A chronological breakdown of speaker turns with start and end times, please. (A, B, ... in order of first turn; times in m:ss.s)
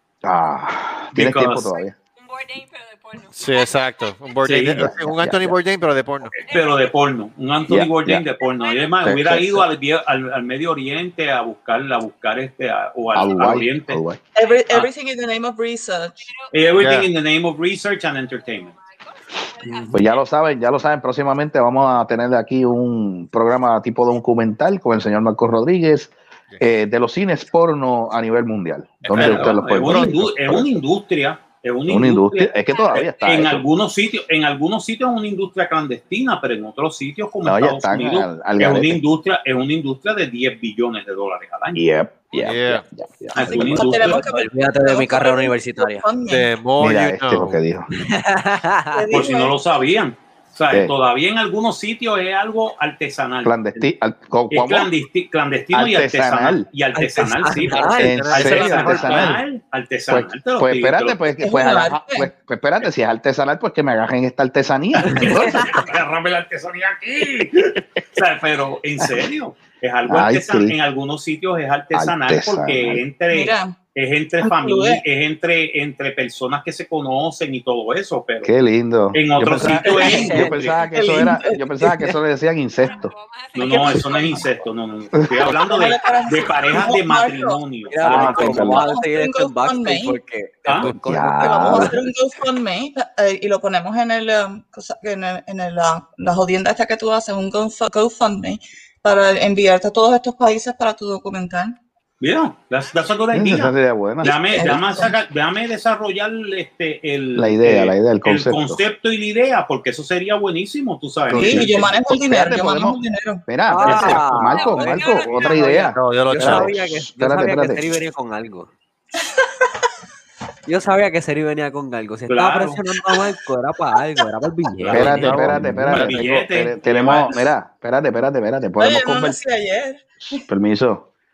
0:00.2-0:02.0 A
0:01.1-0:01.7 B
0:01.6-0:04.1 C
0:03.3-0:06.4 D
0:04.4-0:04.9 B
0:04.8-0:05.6 A
0:06.4-0:14.0 B
0:06.4-0:06.9 C
0:07.7-0:08.2 A
0:08.3-0:09.2 C
0:09.0-0:09.7 A
0:13.1-0:14.2 A
0:14.4-0:16.3 E
0:16.2-0:17.0 C
0:16.5-0:18.7 B
0:16.8-0:17.1 D
0:18.3-0:20.3 C
0:19.9-0:30.8 A
0:29.0-0:30.2 D
0:29.1-0:41.8 B
0:31.9-0:33.7 A
0:32.7-0:33.4 C
0:37.4-0:39.0 A
0:41.8-0:44.0 A
0:42.4-0:42.8 D
0:43.3-0:44.2 B
0:43.4-0:46.5 E
0:43.5-0:46.1 F
0:46.2-0:47.6 D
0:46.8-0:47.9 A
0:47.9-0:49.1 F
0:48.9-0:49.5 E
0:49.1-0:53.7 B
0:53.4-0:54.9 A
0:54.5-1:01.2 B
0:55.7-0:56.7 A
0:57.0-0:58.4 F
0:58.0-0:59.4 D
0:58.0-0:59.4 A
1:00.1-1:05.9 A
1:01.4-1:02.3 E
1:05.0-1:05.7 F
1:05.2-1:18.5 B
1:07.4-1:07.8 A
1:10.1-1:10.8 A
1:11.9-1:13.0 A
1:13.3-1:13.7 E
1:14.4-1:15.0 E
1:18.4-1:23.1 A
1:19.1-1:20.8 B
1:19.8-1:20.4 E
1:19.9-1:20.6 F
1:20.9-1:22.1 E
1:22.8-1:24.7 C
1:23.6-1:28.0 B
1:24.1-1:24.4 A
1:25.2-1:25.4 A
1:25.6-1:30.2 E
1:27.9-1:32.0 F
1:28.0-1:28.9 A
1:30.7-1:31.0 B
1:31.0-1:32.0 A
1:31.2-1:41.8 E
1:42.2-1:51.9 B
1:42.8-1:43.6 C
1:43.3-1:44.8 A
1:44.2-1:45.1 E
1:47.4-1:48.8 A
1:51.3-1:57.9 A
1:51.3-1:53.5 E
1:53.7-1:58.7 F
1:53.8-1:54.2 B
1:54.5-1:55.8 C
1:55.7-1:56.8 D
2:00.7-2:06.2 F
2:02.3-2:02.8 B
2:04.8-2:07.5 B
2:04.9-2:09.4 A
2:05.2-2:06.2 D
2:08.8-2:10.1 E
2:10.2-2:11.1 A